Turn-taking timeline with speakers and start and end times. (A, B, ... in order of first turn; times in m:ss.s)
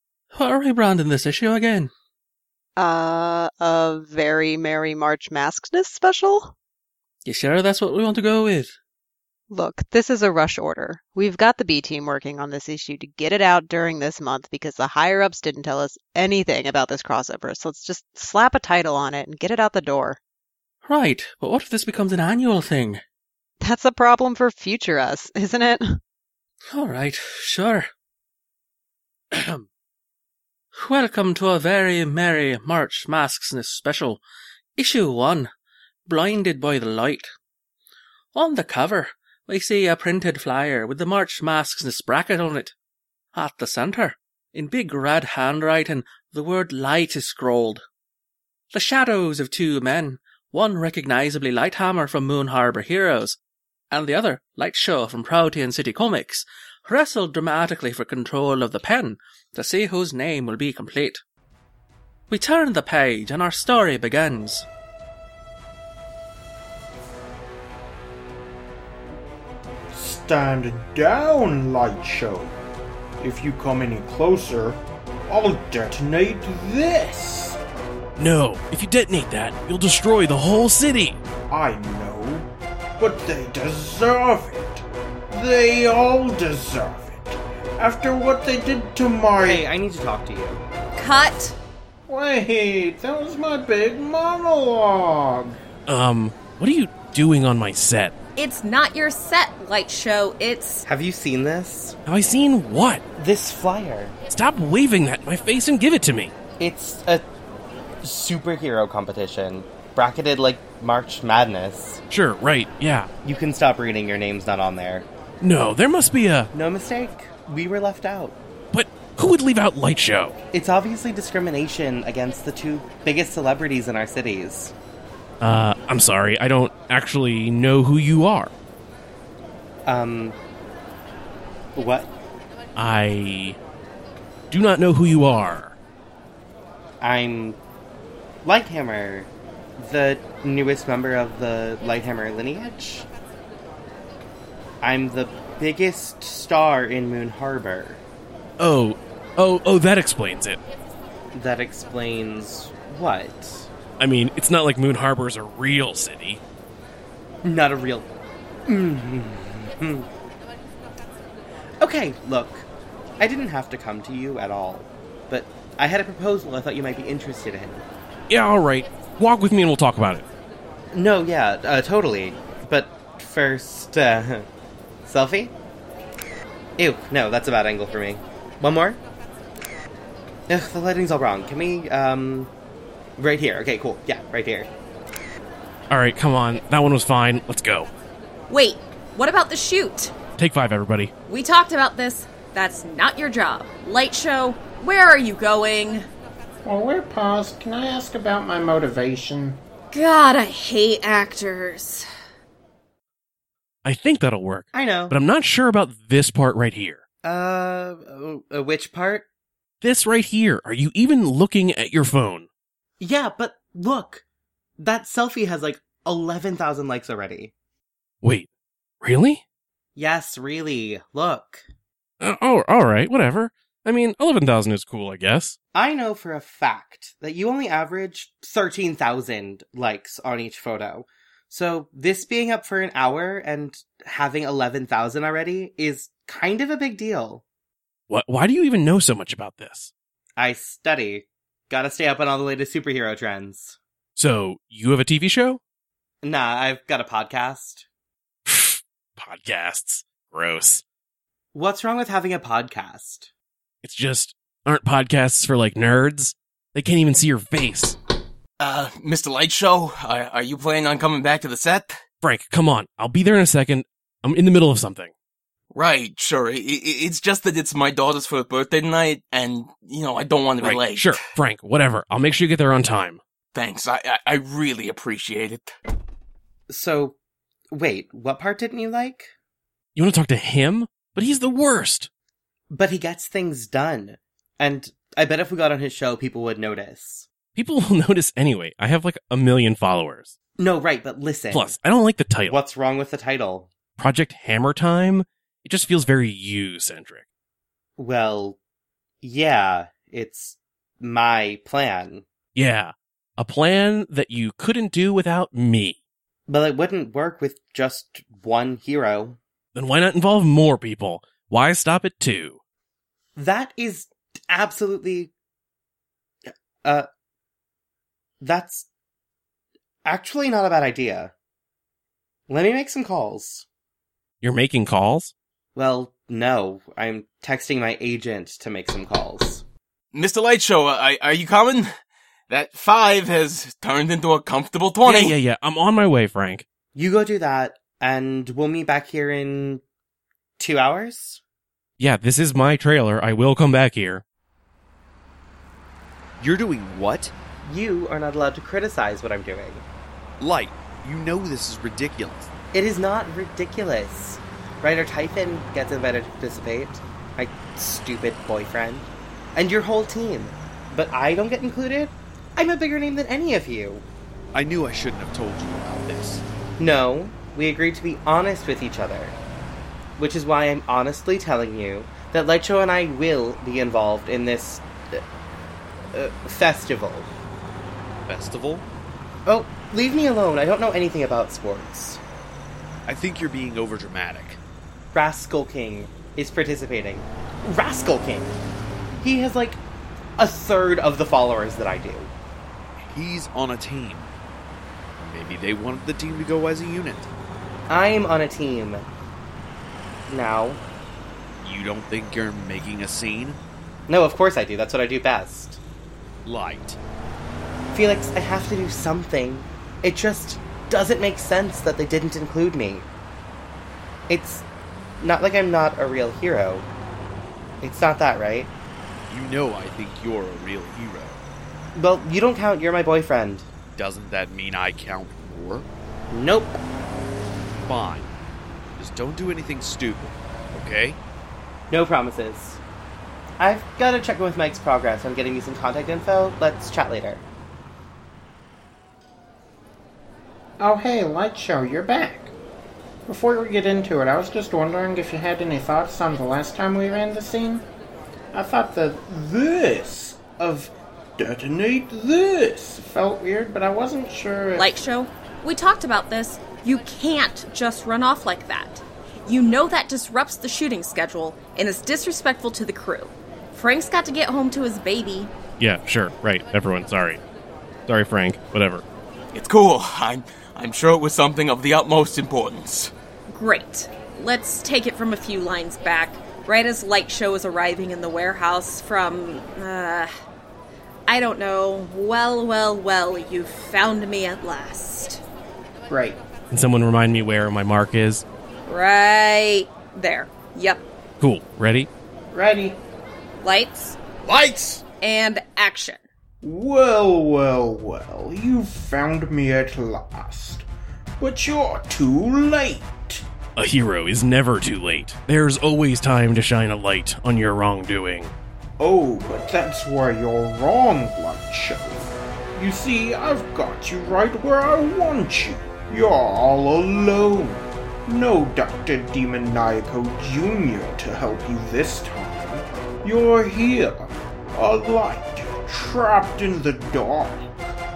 0:00.3-0:01.9 A
0:02.8-0:06.5 B
0:07.2-0:08.7 A
0:09.5-0:20.2 B
0:20.8-0:23.0 A
0:23.6-0:26.0 B
0:26.7-0:27.9 A
0:29.3-0:29.6 A
0:30.7-0:34.2 A
0:34.8-0:35.5 A
0:36.1-0:37.3 A
0:38.3-0:42.7 A
0:43.3-0:47.8 A
0:48.7-0:53.4 A
0:53.9-1:01.2 A
1:02.3-1:04.6 A
1:09.9-1:12.6 C
1:13.2-1:17.6 C
1:18.2-1:21.2 D
1:21.5-1:29.6 C
1:29.4-1:30.6 E
1:31.0-1:31.6 F
1:32.1-1:34.8 C
1:34.9-1:35.3 G
1:35.9-1:38.1 D
1:38.4-1:40.8 F
1:40.8-1:42.0 E
1:42.0-1:43.0 D
1:43.2-1:44.2 E
1:44.3-1:46.3 D
1:46.6-1:47.2 E
1:48.0-1:52.0 E
1:52.1-1:53.1 D
1:53.2-1:55.1 E
1:55.4-1:56.5 D
1:56.5-1:58.4 E
1:58.7-2:00.4 D
2:00.5-2:04.7 E
2:05.4-2:08.5 D
2:09.8-2:10.4 E
2:11.8-2:12.1 E
2:12.8-2:13.6 D
2:14.5-2:15.7 D
2:17.0-2:17.6 E
2:18.4-2:23.1 E
2:24.8-2:28.0 E
2:28.6-2:30.6 D
2:31.3-2:33.7 E
2:34.0-2:36.4 D
2:37.4-2:38.1 E
2:38.7-2:40.1 E
2:41.8-2:42.6 E
2:43.2-2:47.8 E
2:48.3-2:50.2 D
2:50.9-2:54.5 E
2:55.0-2:55.5 E
2:56.8-2:59.0 E
3:00.5-3:02.5 E
3:03.2-3:04.7 E
3:05.9-3:07.9 D
3:08.5-3:10.1 F
3:10.4-3:11.1 D
3:11.3-3:16.1 F
3:16.6-3:19.6 G
3:19.9-3:22.0 F
3:23.8-3:27.0 D
3:24.7-3:25.2 E
3:27.2-3:29.2 E
3:29.8-3:32.5 D
3:33.0-3:34.2 E
3:34.8-3:37.5 E
3:39.0-3:39.4 D
3:40.0-3:41.6 E
3:42.2-3:45.6 D
3:45.7-3:57.4 E
3:58.1-3:59.9 D
4:00.4-4:03.8 E
4:04.2-4:05.6 D
4:06.2-4:07.8 E
4:08.5-4:10.8 D
4:11.5-4:13.3 E
4:13.8-4:18.0 D
4:18.6-4:22.0 H
4:22.2-4:25.1 D
4:25.7-4:31.2 H
4:30.6-4:33.2 D
4:33.5-4:35.8 H
4:36.7-4:37.2 E
4:37.7-4:39.3 E
4:39.9-4:42.1 D
4:42.7-4:47.2 E
4:47.6-4:50.3 D
4:50.6-4:51.7 E
4:51.5-4:52.6 D
4:52.5-4:53.7 E
4:54.0-4:57.2 D
4:58.0-4:58.6 E
4:59.2-5:02.2 E
5:02.6-5:06.0 D
5:06.5-5:09.4 E
5:09.7-5:12.6 D
5:13.4-5:15.3 E
5:18.4-5:18.8 E
5:20.0-5:21.3 E
5:22.5-5:23.6 E
5:24.4-5:25.3 D
5:25.8-5:29.6 E
5:30.1-5:31.9 H
5:32.5-5:35.4 H
5:35.0-5:36.6 D
5:36.9-5:39.8 E
5:40.6-5:41.4 E
5:42.0-5:44.2 D
5:46.4-5:47.3 I
5:47.6-5:49.8 E
5:50.4-5:52.5 I
5:52.7-6:04.0 E
6:04.5-6:06.4 I
6:06.8-6:09.4 E
6:10.2-6:15.2 E
6:16.1-6:17.3 E
6:18.3-6:18.8 I
6:19.5-6:22.2 E
6:23.1-6:24.6 I
6:25.1-6:28.6 E
6:29.2-6:29.8 E
6:30.4-6:32.3 E
6:33.1-6:34.3 I
6:35.2-6:37.3 I
6:37.9-6:39.0 E
6:40.3-6:40.8 E
6:41.6-6:43.6 I
6:44.1-6:45.8 E
6:46.4-6:47.0 I
6:47.9-6:53.1 E
6:54.3-6:54.6 E
6:55.2-6:56.8 E
6:57.8-6:58.7 E
6:59.3-7:01.4 I
7:01.9-7:03.7 E
7:04.0-7:05.9 I
7:06.3-7:06.8 E
7:07.8-7:08.3 I
7:09.0-7:11.2 I
7:11.9-7:12.8 E
7:13.6-7:17.4 E
7:20.8-7:22.5 G
7:23.3-7:27.8 G
7:28.5-7:29.2 G
7:29.2-7:33.0 C
7:33.0-7:35.0 G
7:34.7-7:45.5 F
7:45.8-7:47.4 D
7:48.1-7:49.0 D
7:49.5-7:53.1 H
7:53.5-8:00.3 F
8:01.3-8:05.4 F
8:06.1-8:06.4 G
8:06.7-8:08.4 D
8:08.8-8:11.0 F
8:11.4-8:12.1 D
8:12.5-8:13.0 G
8:13.6-8:14.2 F
8:14.5-8:15.0 I
8:15.2-8:16.2 F
8:16.6-8:20.8 C
8:21.4-8:23.4 C
8:23.8-8:28.5 D
8:29.0-8:47.9 C